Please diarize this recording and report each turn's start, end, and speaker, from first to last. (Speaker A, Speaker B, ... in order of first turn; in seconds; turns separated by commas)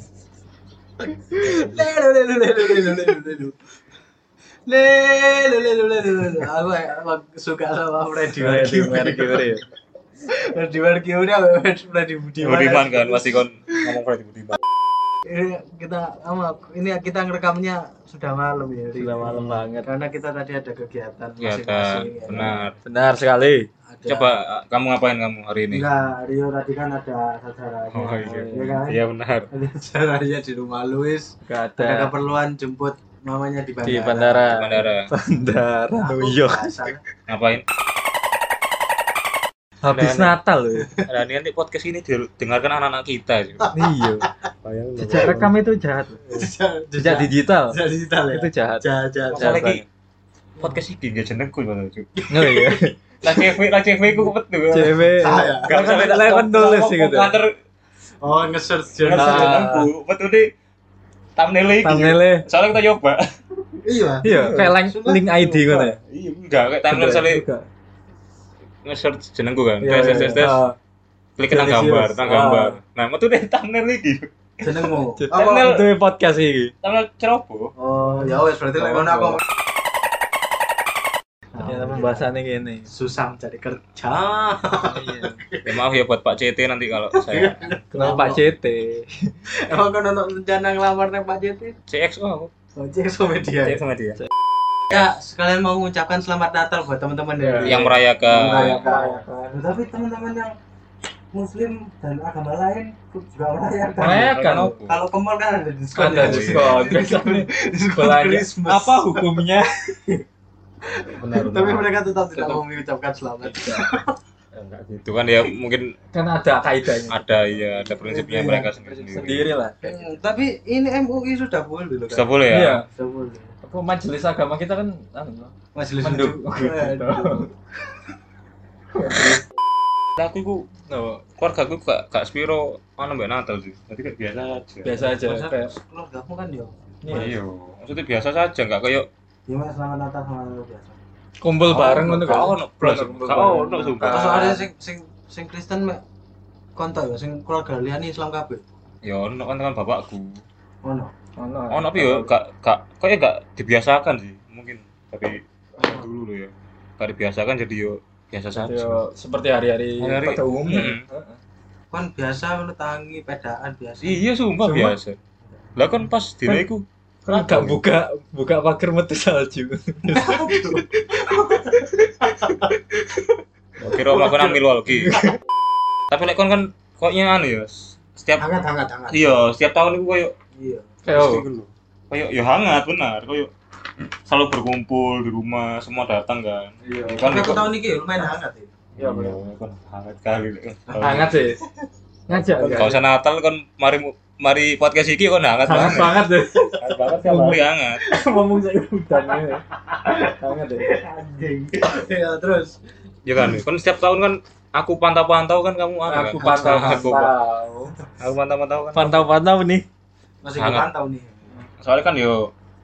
Speaker A: 1.0-3.5, Speaker A: 4.7-9.5, Speaker B: 8.3-9.6, Speaker A: 10.3-13.4, Speaker C: 12.4-14.6, Speaker A: 15.3-22.6, Speaker B: 18.9-19.9, Speaker C: 21.4-22.8, Speaker B: 22.9-23.6, Speaker A: 23.9-24.3, Speaker C: 24.1-25.9, Speaker A: 25.7-29.0, Speaker C: 27.9-29.5, Speaker B: 28.2-28.8, Speaker A: 29.5-34.6, Speaker B: 31.4-32.1, Speaker B: 33.8-37.0, Speaker C: 34.5-35.1, Speaker A: 36.0-37.0, Speaker C: 37.3-37.6, Speaker B: 39.8-40.9, Speaker C: 39.9-40.4, Speaker A: 40.7-41.0, Speaker C: 41.1-43.7, Speaker A: 43.6-44.3, Speaker B: 43.7-44.3, Speaker C: 44.6-45.5, Speaker B: 45.0-46.4, Speaker A: 46.2-49.8, Speaker B: 47.0-47.8, Speaker B: 48.3-49.8, Speaker C: 50.6-52.1, Speaker A: 52.2-52.7, Speaker B: 52.3-52.9, Speaker C: 53.2-57.5, Speaker B: 54.7-57.4, Speaker A: 55.2-55.7, Speaker A: 58.2-59.9, Speaker C: 59.0-60.5, Speaker B: 59.1-59.8, Speaker C: 61.4-63.2, Speaker B: 61.8-62.4, Speaker A: 63.8-65.2, Speaker B: 64.2-66.0, Speaker C: 64.3-64.7, Speaker C: 65.3-67.4, Speaker B: 66.9-67.6, Speaker C: 68.8-70.6, Speaker B: 69.8-70.7, Speaker A: 70.1-70.4, Speaker C: 71.4-75.9, Speaker B: 71.5-72.8, Speaker A: 74.6-75.6, Speaker B: 75.2-76.7, Speaker C: 76.8-77.7, Speaker A: 77.8-79.4, Speaker B: 78.1-79.4, Speaker A: 81.5-82.3, Speaker B: 81.6-82.9, Speaker A: 82.9-85.7, Speaker B: 84.8-85.4, Speaker C: 85.6-87.7, Speaker A: 87.1-88.4, Speaker B: 87.9-89.3, Speaker A: 89.7-91.8, Speaker C: 91.9-92.5, Speaker A: 92.8-93.8, Speaker C: 93.6-94.2, Speaker A: 94.9-100.5, Speaker B: 97.4-99.6, Speaker C: 97.6-98.9, Speaker A: 101.3-109.3, Speaker B: 104.0-104.8, Speaker C: 104.2-105.0, Speaker B: 105.9-110.2, Speaker C: 106.0-106.9, Speaker A: 111.0-114.2, Speaker C: 111.1-111.9, Speaker B: 112.3-112.6, Speaker B: 113.4-113.9, Speaker C: 114.5-115.9, Speaker B: 116.1-117.8, Speaker C: 117.1-119.5, Speaker A: 118.0-118.7, Speaker B: 118.4-120.0, Speaker A: 119.8-122.3, Speaker C: 122.1-122.8, Speaker B: 122.5-122.8, Speaker A: 122.9-123.5, Speaker B: 123.6-127.5, Speaker A: 125.7-127.5, Speaker B: 128.9-129.4, Speaker C: 130.2-130.7, Speaker B: 130.9-131.2, Speaker C: 131.4-135.1, Speaker B: 134.8-135.7, Speaker A: 135.1-137.3, Speaker B: 137.0-137.3, Speaker C: 137.1-139.1, Speaker A: 139.5-141.0, Speaker B: 141.4-144.7, Speaker C: 141.7-144.5, Speaker A: 144.0-146.0, Speaker A: 146.8-148.6, Speaker C: 149.0-150.4, Speaker A: 150.8-151.1, Speaker B: 151.4-152.3, Speaker C: 151.7-159.0, Speaker A: 155.8-156.0, Speaker B: 158.5-161.4, Speaker C: 160.0-161.0, Speaker A: 161.9-164.2, Speaker C: 164.0-165.2, Speaker B: 164.6-165.0, Speaker C: 165.8-167.8, Speaker B: 167.3-173.2, Speaker A: 170.1-172.5, Speaker C: 173.8-175.1, Speaker B: 174.0-174.3, Speaker A: 174.1-174.5, Speaker B: 174.9-175.3, Speaker C: 176.1-178.5, Speaker A: 178.4-179.4, Speaker C: 179.1-180.3, Speaker A: 180.6-180.9, Speaker B: 181.0-181.4, Speaker C: 181.1-183.5, Speaker C: 184.3-187.7, Speaker B: 186.8-187.3, Speaker A: 187.2-188.7, Speaker B: 189.0-189.4, Speaker C: 189.0-191.3, Speaker A: 190.9-191.4, Speaker B: 191.0-191.6, Speaker B: 192.3-193.0, Speaker C: 192.3-196.2, Speaker B: 195.7-199.6, Speaker C: 196.8-198.0, Speaker A: 199.9-202.8, Speaker B: 200.4-200.9, Speaker C: 203.2-207.3, Speaker B: 206.1-207.9, Speaker A: 206.3-206.9, Speaker C: 208.2-209.2, Speaker B: 208.9-209.8, Speaker A: 210.4-211.5, Speaker C: 210.6-210.9, Speaker C: 211.8-212.5